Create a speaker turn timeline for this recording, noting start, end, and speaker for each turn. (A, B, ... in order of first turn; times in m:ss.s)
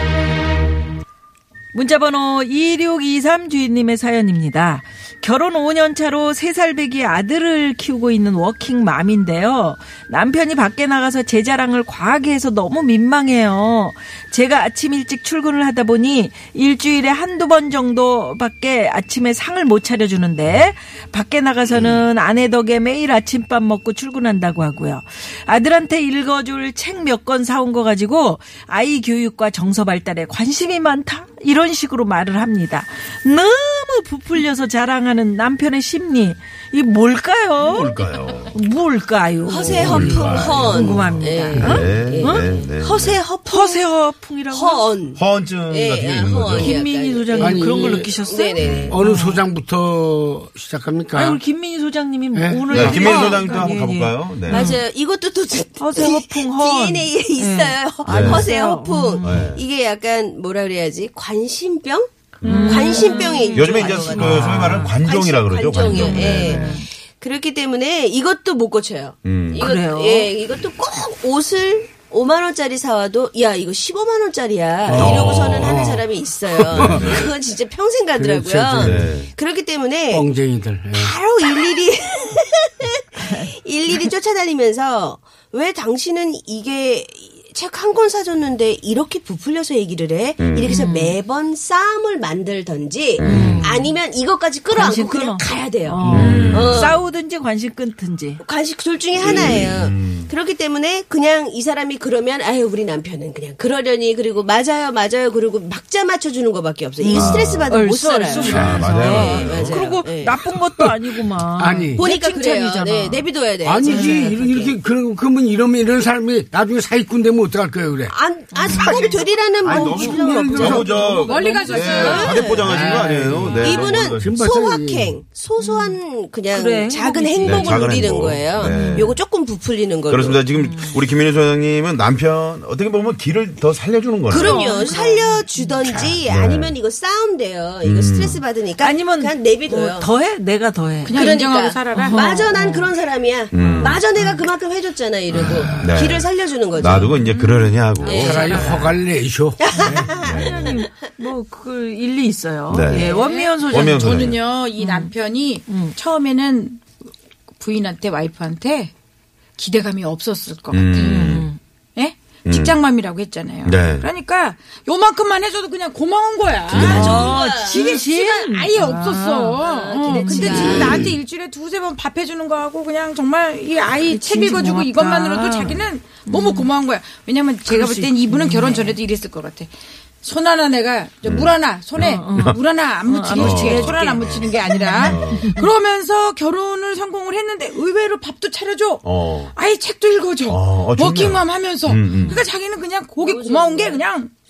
0:01.7-0:42.5 A
0:21.7-0:22.0 B
0:37.6-0:38.6 B
0:39.5-0:43.8 C
0:39.6-0:43.2 B
0:39.9-0:40.2 D
0:41.6-0:41.8 D
0:43.5-0:44.9 A
0:44.5-0:49.0 C
0:45.1-0:46.8 B
0:46.5-0:49.4 A
0:47.4-0:48.1 D
0:48.6-0:49.0 B
0:48.9-0:51.4 D
0:51.2-0:54.8 A
0:52.3-0:53.0 D
0:52.7-0:54.7 B
0:53.0-0:53.4 E
0:54.5-1:20.3 C
0:55.8-0:59.5 A
0:58.1-0:58.5 B
0:59.2-0:59.6 B
1:02.4-1:06.8 B
1:02.4-1:05.0 A
1:05.8-1:06.9 A
1:09.2-1:09.7 B
1:09.6-1:10.3 A
1:14.8-1:17.3 D
1:15.0-1:15.9 B
1:16.7-1:17.3 B
1:18.1-1:19.2 D
1:18.8-1:19.3 B
1:20.1-1:21.2 D
1:20.9-1:37.0 C
1:23.2-1:23.5 A
1:30.4-1:30.7 B
1:30.7-1:31.2 A
1:33.2-1:33.7 B
1:33.2-1:33.9 A
1:34.7-1:38.4 A
1:36.1-1:37.0 B
1:38.4-1:50.4 C
1:39.2-1:40.3 B
1:47.0-1:53.3 A
1:47.1-1:47.7 B
1:48.4-1:48.8 D
1:48.5-1:49.8 B
1:50.4-1:52.1 D
1:52.0-1:54.8 C
1:53.6-1:58.1 D
1:53.9-1:54.4 A
1:58.1-2:10.4 C
1:58.5-1:59.1 A
1:58.7-2:04.3 B
1:58.8-1:59.0 D
1:59.6-2:01.0 D
2:00.4-2:03.1 E
2:02.6-2:05.2 D
2:03.3-2:03.9 A
2:05.6-2:06.0 A
2:06.5-2:09.2 A
2:07.4-2:09.1 B
2:10.1-2:14.7 B
2:10.6-2:11.0 A
2:14.3-2:15.8 A
2:14.3-2:20.1 C
2:15.9-2:16.1 D
2:16.0-2:16.8 B
2:17.8-2:18.4 B
2:18.8-2:21.4 A
2:21.0-2:22.6 E
2:21.1-2:27.2 C
2:21.9-2:22.9 A
2:23.5-2:24.0 B
2:23.5-2:24.4 A
2:25.3-2:26.0 D
2:25.4-2:29.0 B
2:27.1-2:28.7 E
2:28.0-2:28.7 C
2:28.2-2:29.6 D
2:29.6-2:30.8 C
2:29.7-2:35.1 A
2:29.9-2:30.8 B
2:32.7-2:33.1 B
2:32.9-2:36.8 E
2:33.7-2:34.4 B
2:35.7-2:36.0 A
2:37.6-2:38.9 E
2:39.6-2:59.7 E
2:40.7-2:41.5 B
2:41.0-2:41.6 A
2:42.5-2:42.8 B
2:43.6-2:44.1 B
2:46.7-2:47.3 B
2:46.7-2:48.0 C
2:46.8-2:50.9 A
2:49.6-2:51.1 C
2:50.7-2:51.2 B
2:54.0-2:56.7 A
2:57.6-2:59.0 A
3:00.2-3:14.3 E
3:01.2-3:02.6 B
3:02.0-3:05.4 A
3:03.4-3:05.6 B
3:09.0-3:09.5 B
3:10.5-3:12.4 B
3:13.2-3:14.0 C